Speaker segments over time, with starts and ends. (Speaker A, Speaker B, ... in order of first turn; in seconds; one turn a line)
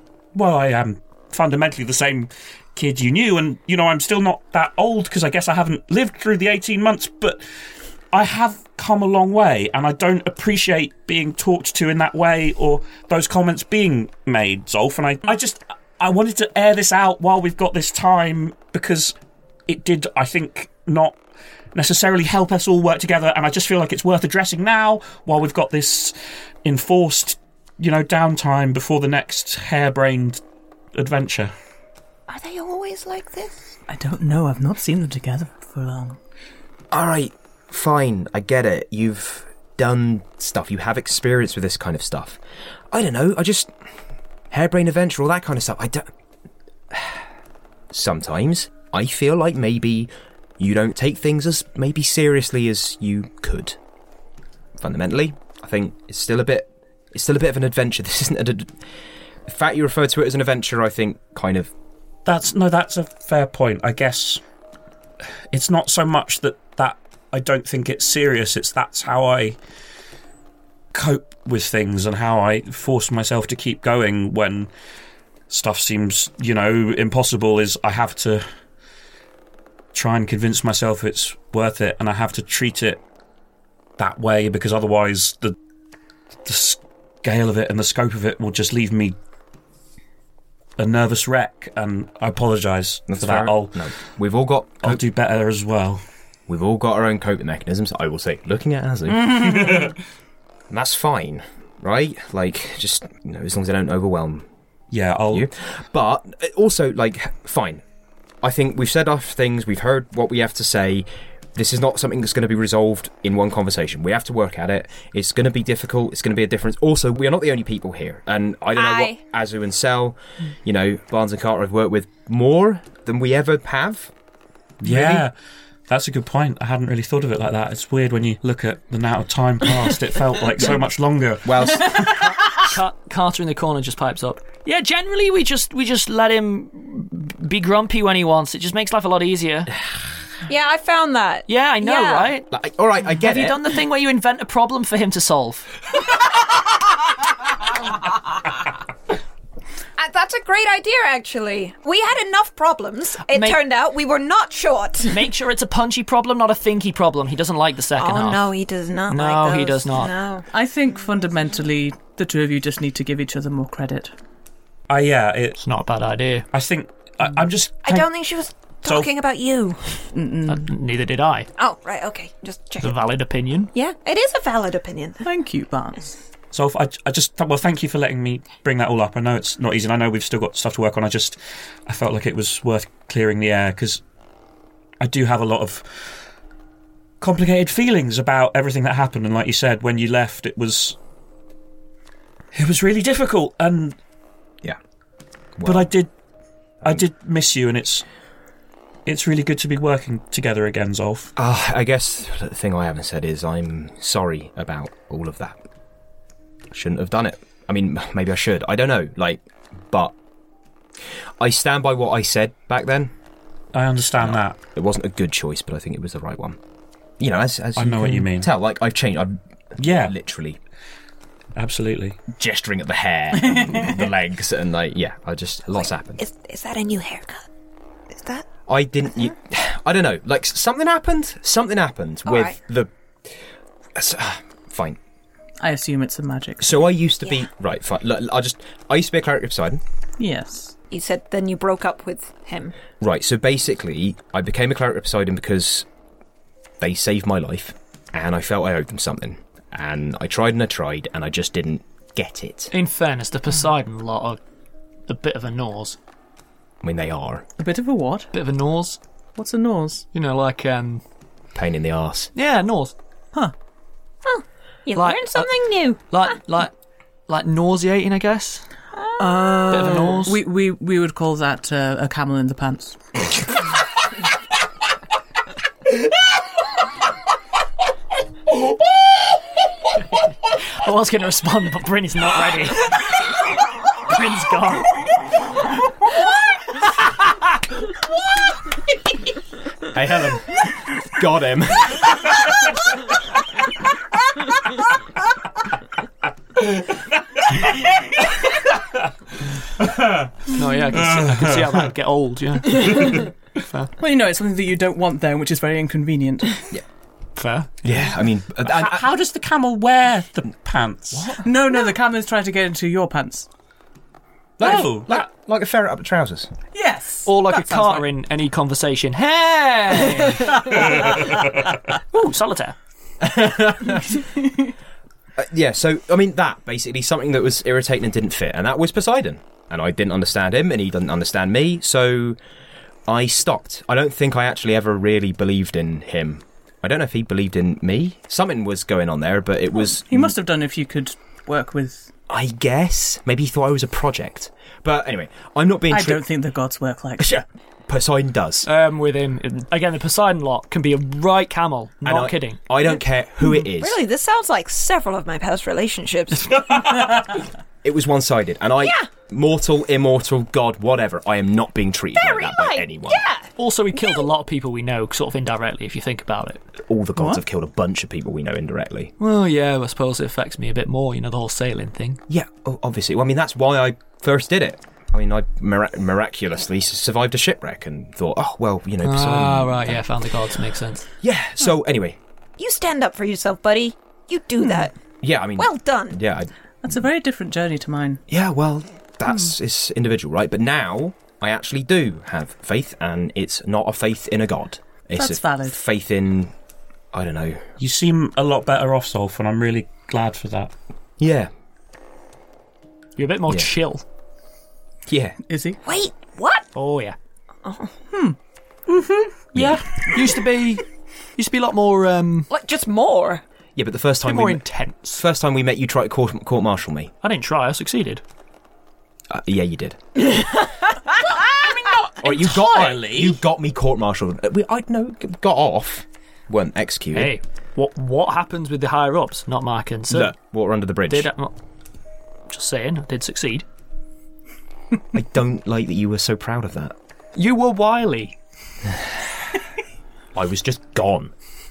Speaker A: 0.3-7.4
Speaker A: 8.1-19.1
Speaker A: 19.7-21.2
Speaker A: 21.7-30.4
Speaker A: 30.9-31.5
Speaker B: 32.3-33.5
Speaker C: 33.9-36.2
Speaker D: 36.9-42.4
Speaker D: 42.9-43.7
Speaker D: 44.5-46.1
Speaker D: 46.9-47.2
Speaker D: 47.9-53.8
Speaker D: 54.8-58.8
Speaker D: 59.5-61.7
Speaker A: 62.2-64.4
Speaker A: 65.5-69.6
Speaker A: 70.9-74.7
Speaker A: 75.5-78.4
Speaker A: 79.9-83.0
Speaker A: 84.0-85.5
Speaker A: 86.4-89.2
Speaker A: 90.8-93.9
Speaker D: 93.1-95.0
Speaker A: 94.8-96.0
Speaker D: 96.5-99.8
Speaker A: 99.2-99.9
Speaker D: 100.7-104.5
Speaker A: 104.9-105.5
Speaker D: 105.3-107.8
Speaker D: 108.4-124.1
Speaker B: 118.7-119.2
Speaker A: 124.8-125.3
Speaker D: 124.8-125.2
Speaker A: 125.9-131.9
Speaker D: 131.4-132.2
Speaker E: 132.5-139.7
Speaker B: 140.5-142.3
Speaker E: 141.5-142.4
Speaker D: 142.5-143.6
Speaker E: 143.1-145.7
Speaker B: 150.0-155.2
Speaker E: 153.3-153.6
Speaker E: 155.1-158.5
Speaker B: 158.0-160.5
Speaker E: 159.1-160.1
Speaker C: 160.5-164.1
Speaker A: 164.9-165.6
Speaker E: 165.6-166.5
Speaker A: 166.5-168.1
Speaker B: 167.8-170.1
Speaker A: 168.8-169.1
Speaker C: 170.1-170.7
Speaker E: 170.5-171.5
Speaker B: 171.6-173.0
Speaker E: 172.8-173.7
Speaker B: 173.7-175.2
Speaker C: 175.2-176.2
Speaker A: 176.5-184.0
Speaker A: 185.0-186.2
Speaker A: 187.2-191.0
Speaker A: 192.5-194.0
Speaker D: 195.6-195.9
Speaker A: 195.6-196.1
Speaker A: 196.8-198.0
Speaker A: 199.1-201.3
Speaker D: 201.3-205.6
Speaker D: 206.7-210.1
Speaker D: 211.4-213.1
Speaker A: 213.7-214.6
Speaker D: 214.2-216.6
Speaker D: 217.2-220.6
Speaker A: 217.8-218.5
Speaker A: 219.8-220.1
Speaker A: 221.6-222.2
Speaker D: 222.3-226.2
Speaker B: 226.2-227.4
Speaker B: 228.1-228.4
Speaker D: 228.7-233.3
Speaker B: 232.3-232.6
Speaker D: 233.9-235.0
Speaker C: 235.6-236.9
Speaker D: 236.6-239.8
Speaker C: 240.2-240.7
Speaker B: 240.9-242.7
Speaker D: 243.0-245.9
Speaker D: 246.8-252.7
Speaker E: 252.7-254.4
Speaker E: 255.1-256.0
Speaker D: 256.8-257.4
Speaker C: 257.6-258.3
Speaker E: 258.3-259.0
Speaker C: 259.4-260.1
Speaker E: 260.1-261.0
Speaker D: 261.5-262.3
Speaker E: 262.3-262.9
Speaker B: 264.2-266.3
Speaker E: 264.9-266.7
Speaker E: 267.3-268.6
Speaker B: 268.9-269.9
Speaker C: 269.2-273.0
Speaker E: 269.7-270.4
Speaker E: 280.5-283.1
Speaker E: 284.0-285.1
Speaker D: 289.9-292.4
Speaker A: 299.8-300.3
Speaker E: 300.5-303.9
Speaker A: 300.9-301.8
Speaker A: 302.7-303.2
Speaker C: 304.0-306.6
Speaker E: 307.4-308.0
Speaker D: 307.8-309.0
Speaker A: 308.6-311.4
Speaker C: 311.4-313.5
Speaker D: 314.6-316.5
Speaker A: 314.6-315.2
Speaker C: 316.7-318.1
Speaker E: 317.2-321.5
Speaker A: 320.7-321.7
Speaker E: 322.1-322.8
Speaker D: 323.2-324.2
Speaker D: 325.4-332.4
Speaker D: 333.1-340.3
Speaker C: 339.8-342.1
Speaker D: 342.3-346.2
Speaker C: 345.9-347.4
Speaker D: 347.2-348.7
Speaker E: 348.6-352.6
Speaker D: 352.0-354.0
Speaker B: 352.9-357.1
Speaker A: 356.6-357.2
Speaker D: 357.8-363.2
Speaker B: 358.8-359.1
Speaker B: 362.1-364.2
Speaker E: 363.6-366.6
Speaker D: 366.9-369.1
Speaker E: 369.2-372.2
Speaker D: 372.3-380.0
Speaker E: 379.0-381.1
Speaker D: 381.2-382.2
Speaker B: 382.6-385.0
Speaker D: 385.2-386.5
Speaker B: 385.6-386.2
Speaker C: 386.8-388.2
Speaker D: 388.3-396.5
Speaker C: 395.1-395.8
Speaker D: 397.1-397.7
Speaker A: 397.8-400.7
Speaker D: 401.2-401.5
Speaker E: 403.2-404.0
Speaker D: 405.1-405.4
Speaker C: 405.5-405.8
Speaker B: 405.8-406.7
Speaker E: 406.7-407.1
Speaker B: 407.6-407.9
Speaker E: 409.2-410.8
Speaker D: 409.5-409.8
Speaker E: 411.4-412.5
Speaker B: 412.5-413.4
Speaker D: 413.8-417.1
Speaker E: 414.2-415.2
Speaker E: 417.2-418.2
Speaker D: 419.3-420.0
Speaker B: 420.2-421.4
Speaker A: 421.4-423.4
Speaker D: 422.2-427.3
Speaker E: 427.1-430.3
Speaker D: 430.1-431.3
Speaker E: 431.1-431.5
Speaker E: 432.5-433.6
Speaker D: 435.1-436.9
Speaker E: 437.3-438.3
Speaker D: 440.3-441.3